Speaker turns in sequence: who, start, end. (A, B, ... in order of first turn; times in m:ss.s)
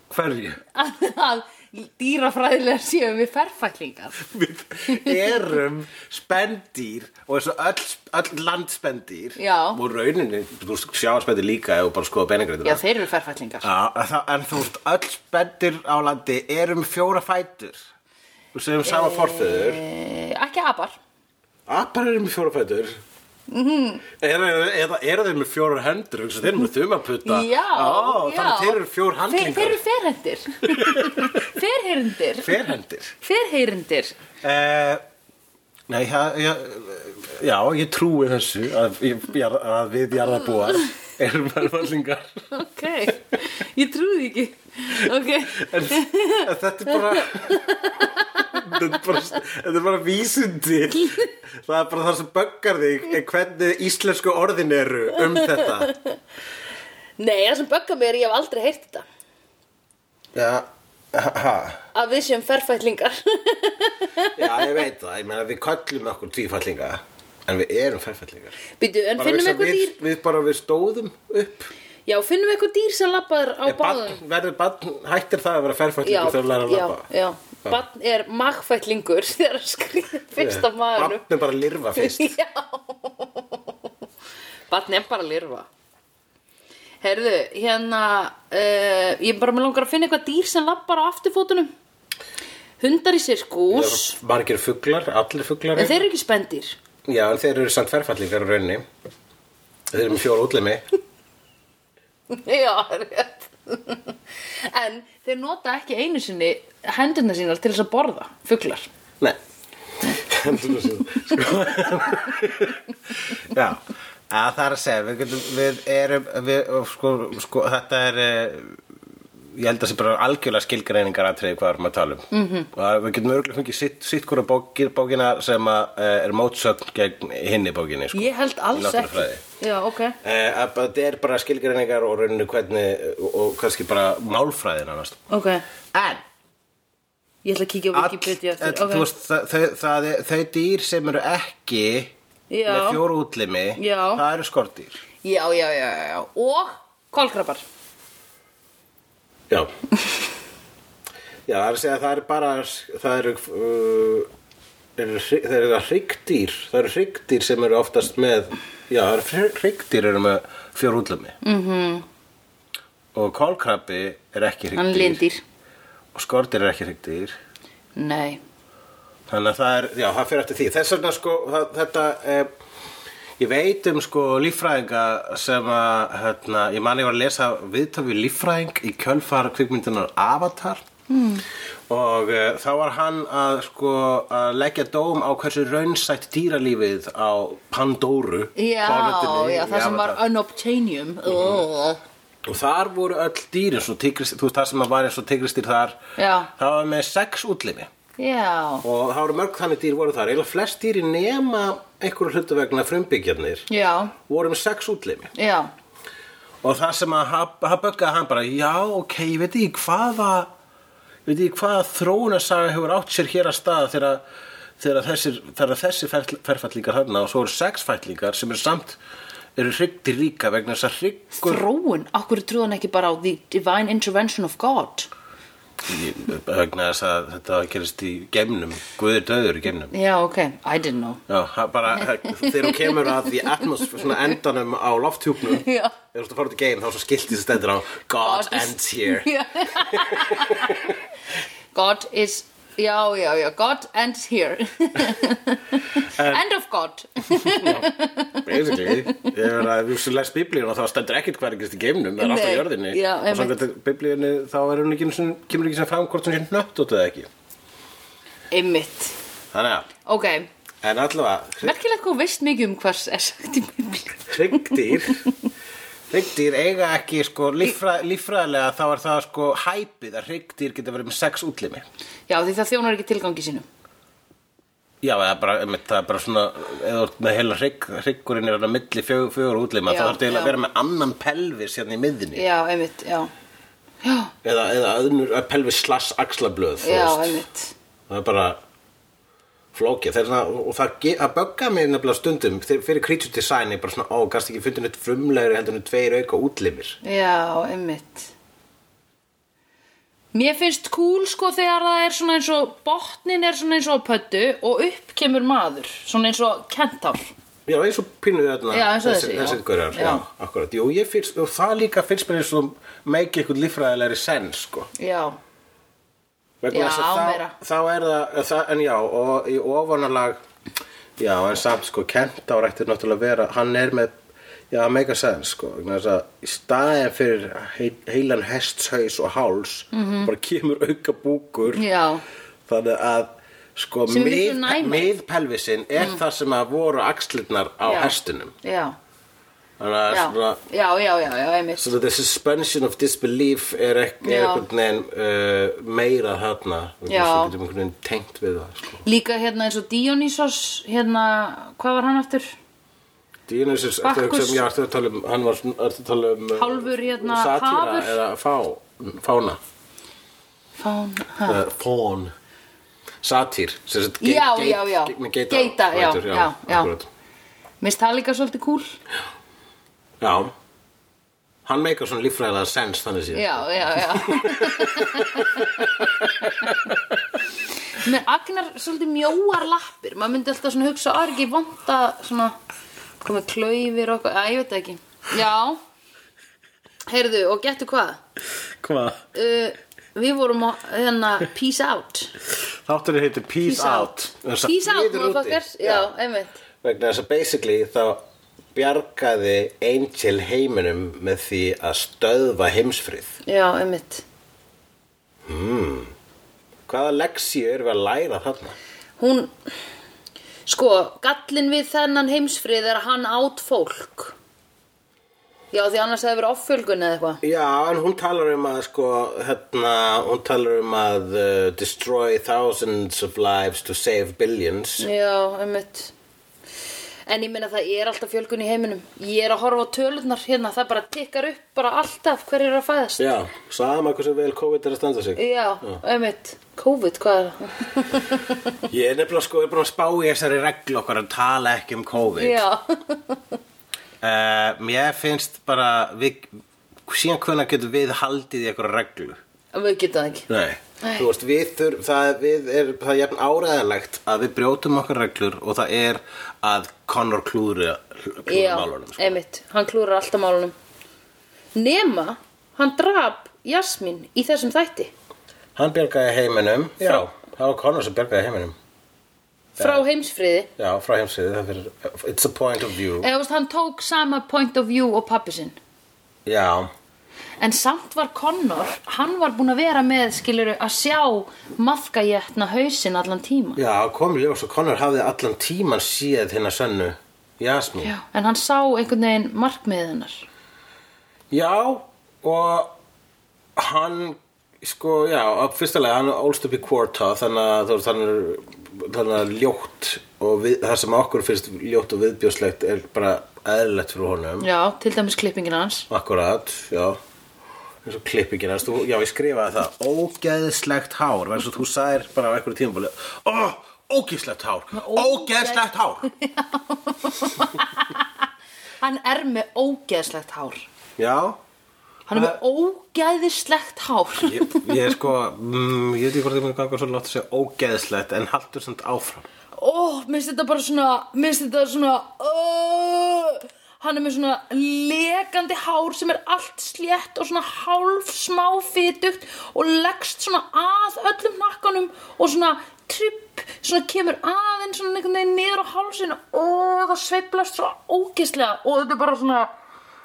0:00.1-0:00.6 A
0:00.7-0:04.2 B
0:04.2-0:12.8 A
0:04.9-0:05.2 B
0:09.4-0:09.8 B
0:12.6-0:13.7 B
0:13.6-0:17.8 A
0:18.5-0:19.8 A
0:18.8-0:21.0 B
0:21.7-0:23.0 A
0:23.5-0:24.0 B
0:24.2-0:29.8 A
0:27.2-0:28.8 B
0:29.3-0:32.5 B
0:30.7-0:31.4 A
0:32.4-0:33.1 A
0:33.2-0:34.2 B
0:34.4-0:35.0 A
0:35.9-0:42.5 A
0:42.5-0:48.8 B
0:44.9-0:55.9 A
0:55.2-0:56.2 B
0:57.2-0:59.0 B
1:00.3-1:01.8 A
1:01.9-1:04.7 B
1:04.3-1:08.6 A
1:08.8-1:10.0 B
1:09.2-1:11.7 A
1:12.1-1:14.2 B
1:13.6-1:17.0 A
1:16.0-1:21.2 B
1:20.4-1:22.3 A
1:22.0-1:23.7 B
1:24.7-1:25.7 B
1:27.0-1:31.7 B
1:32.8-1:34.2 B
1:33.7-1:36.0 A
1:35.8-1:36.8 B
1:37.0-1:38.8 A
1:39.9-1:40.8 A
1:42.3-1:48.9 B
1:50.0-1:58.8 A
1:59.5-2:09.4 A
2:02.3-2:02.7 B
2:08.1-2:10.2 B
2:10.2-2:15.2 A
2:15.3-2:15.6 B
2:15.9-2:16.2 A
2:17.4-2:19.1 B
2:17.9-2:22.1 A
2:22.5-2:23.0 B
2:22.6-2:25.0 A
2:23.8-2:24.2 B
2:25.2-2:27.6 B
2:31.5-2:34.3 A
2:35.0-2:41.4 A
2:41.4-2:42.0 B
2:43.1-2:45.2 A
2:44.7-2:45.4 B
2:46.1-2:47.4 A
2:48.0-2:48.4 B
2:49.3-2:52.5 A
2:53.4-3:00.8 A
3:01.1-3:01.4 B
3:01.9-3:10.2 A
3:08.6-3:12.0 B
3:12.4-3:16.0 A
3:16.2-3:16.5 B
3:16.6-3:17.9 A
3:18.2-3:18.8 B
3:18.8-3:23.7 A
3:23.7-3:24.1 B
3:24.3-3:25.3 A
3:25.3-3:25.7 B
3:26.6-3:30.5 A
3:31.2-3:34.2 A
3:34.8-3:39.0 A
3:39.6-3:41.6 A
3:41.4-3:45.1 B
3:45.8-3:49.9 A
3:49.9-3:51.2 B
3:51.3-4:00.8 A
3:52.0-3:53.4 B
3:55.5-3:55.9 B
3:58.2-4:00.7 B
4:01.7-4:09.3 B
4:06.1-4:06.4 A
4:07.4-4:07.9 A
4:08.4-4:17.3 A
4:12.2-4:13.5 B
4:18.5-4:19.2 B
4:19.5-4:19.9 A
4:20.0-4:20.5 B
4:20.8-4:21.7 A
4:21.6-4:25.0 B
4:24.3-4:25.2 A
4:26.1-4:31.8 A
4:32.3-4:33.6 B
4:35.0-4:42.4 A
4:39.9-4:40.6 B
4:42.3-4:43.3 B
4:44.0-4:44.3 B
4:44.4-4:47.4 A
4:46.8-4:47.7 B
4:48.1-4:48.6 A
4:49.7-4:57.0 A
4:57.0-4:58.3 B
5:00.3-5:07.3 B
5:07.7-5:14.9 A
5:08.7-5:10.2 B
5:15.0-5:15.4 B
5:16.6-5:20.4 A
5:16.7-5:17.5 B
5:21.2-5:24.1 A
5:24.7-5:31.8 A
5:29.9-5:30.3 B
5:31.7-5:32.2 B
5:32.7-5:38.5 A
5:34.1-5:35.1 B
5:37.8-5:39.0 B
5:39.8-5:40.6 A
5:40.1-5:41.9 B
5:41.8-5:49.0 A
5:44.2-5:44.6 B
5:47.1-5:47.5 B
5:49.0-5:52.5 B
5:53.5-5:59.6 A
5:54.0-5:54.7 B
5:56.5-5:58.2 B
6:00.8-6:01.6 B
6:01.4-6:02.3 A
6:03.2-6:07.1 A
6:04.2-6:06.9 B
6:07.8-6:09.0 B
6:10.2-6:10.5 A
6:11.6-6:16.7 A
6:13.3-6:15.8 B
6:17.9-6:22.6 B
6:23.2-6:25.8 B
6:27.1-6:28.2 B
6:28.8-6:29.2 A
6:29.3-6:32.3 B
6:32.8-6:36.1 A
6:33.6-6:36.6 B
6:36.8-6:38.2 A
6:38.7-6:43.3 A
6:43.4-6:44.2 B
6:45.4-6:46.1 A
6:46.9-6:48.8 A
6:49.2-6:49.5 B
6:50.6-6:54.3 B
6:55.7-6:57.4 B
6:57.4-7:05.1 A
7:05.0-7:06.1 B
7:07.3-7:13.3 B
7:13.2-7:16.0 A
7:15.4-7:18.7 B
7:18.9-7:22.6 A
7:22.2-7:23.6 B
7:24.2-7:26.5 A
7:27.1-7:29.4 A
7:29.7-7:30.5 B
7:30.5-7:39.4 A
7:31.0-7:31.3 B
7:38.5-7:40.7 B
7:41.7-7:45.1 B
7:45.8-7:48.7 A
7:49.8-7:50.0 A
7:49.8-7:50.7 B
7:50.8-7:53.3 A
7:53.2-7:55.8 B
7:56.4-7:56.9 A
7:57.6-8:03.8 B
8:03.8-8:08.1 A
8:08.0-8:10.4 B
8:11.5-8:13.0 A
8:13.8-8:24.7 A
8:24.6-8:26.1 B
8:26.1-8:27.2 A
8:28.0-8:36.3 A
8:34.9-8:38.4 B
8:39.0-8:40.9 B
8:41.2-8:41.6 A
8:42.3-8:45.1 B
8:42.3-8:42.6 A
8:44.4-8:49.4 A
8:49.8-9:09.7 B